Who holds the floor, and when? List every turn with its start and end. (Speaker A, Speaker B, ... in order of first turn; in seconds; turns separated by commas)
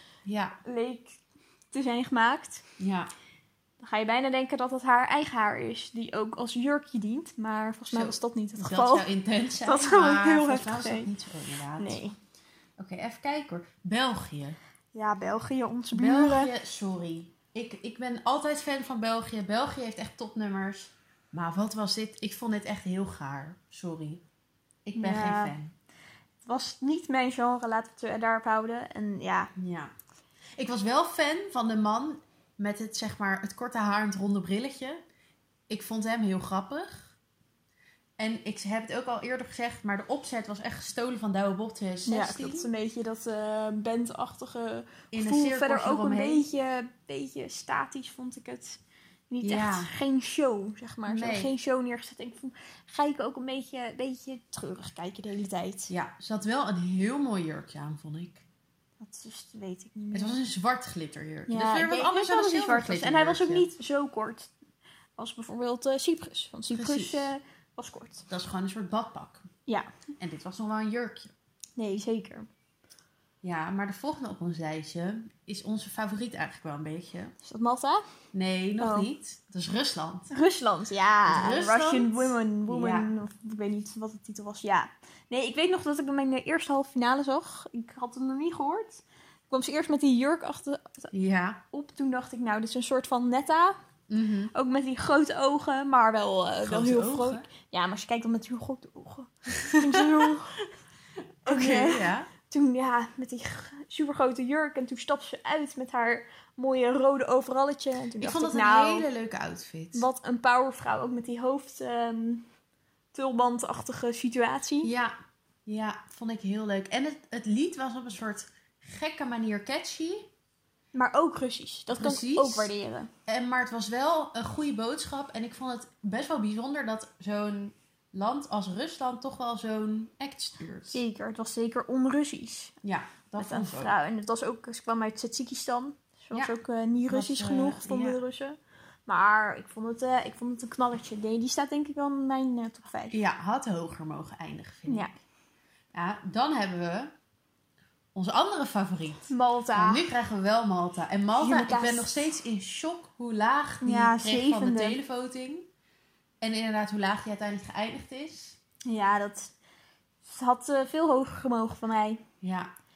Speaker A: 0.2-0.6, Speaker B: 0.7-1.2, Speaker B: 1.7-2.6, Speaker A: 2.8-3.1, Speaker B: 3.8-9.1, Speaker A: 7.9-12.0, Speaker B: 9.6-11.1, Speaker B: 11.8-12.1, Speaker A: 12.8-14.6, Speaker B: 14.9-16.5, Speaker A: 15.9-24.2, Speaker A: 24.8-25.7, Speaker B: 24.9-25.5, Speaker B: 26.4-29.5, Speaker A: 29.6-29.9, Speaker A: 30.6-35.0, Speaker A: 35.7-37.1, Speaker A: 38.2-42.7, Speaker B: 42.1-48.8, Speaker A: 45.1-46.5, Speaker B: 49.3-55.9, Speaker A: 49.4-49.9, Speaker A: 51.0-51.5, Speaker A: 55.9-58.4, Speaker B: 59.0-60.4, Speaker A: 60.1-63.7, Speaker B: 61.5-64.5, Speaker B: 65.2-68.3, Speaker A: 66.7-67.3, Speaker A: 68.3-69.5, Speaker A: 70.2-71.3, Speaker B: 71.8-72.5, Speaker A: 73.4-77.3, Speaker B: 77.4-78.0, Speaker A: 78.3-80.3, Speaker B: 78.8-79.1, Speaker B: 80.3-91.1, Speaker A: 81.3-83.1, Speaker A: 91.1-91.6, Speaker B: 91.7-93.8, Speaker A: 94.1-94.5, Speaker B: 94.5-100.6, Speaker A: 96.6-97.5, Speaker A: 99.6-100.4, Speaker A: 101.5-102.3, Speaker B: 101.5-109.1, Speaker A: 108.2-110.0, Speaker B: 109.9-112.5, Speaker B: 113.1-114.9, Speaker A: 114.8-115.1, Speaker A: 115.7-120.3, Speaker B: 120.9-123.1, Speaker A: 121.9-122.7, Speaker A: 123.3-131.0, Speaker B: 130.9-132.7, Speaker A: 132.8-133.9, Speaker B: 133.4-143.2, Speaker A: 137.1-138.2, Speaker A: 143.1-145.1, Speaker B: 144.9-145.1, Speaker A: 145.9-147.1, Speaker A: 148.1-155.7, Speaker B: 149.3-150.0, Speaker B: 151.4-152.1, Speaker B: 153.8-155.0, Speaker A: 156.4-158.6, Speaker B: 158.8-159.5, Speaker B: 160.2-162.2, Speaker A: 162.4-162.7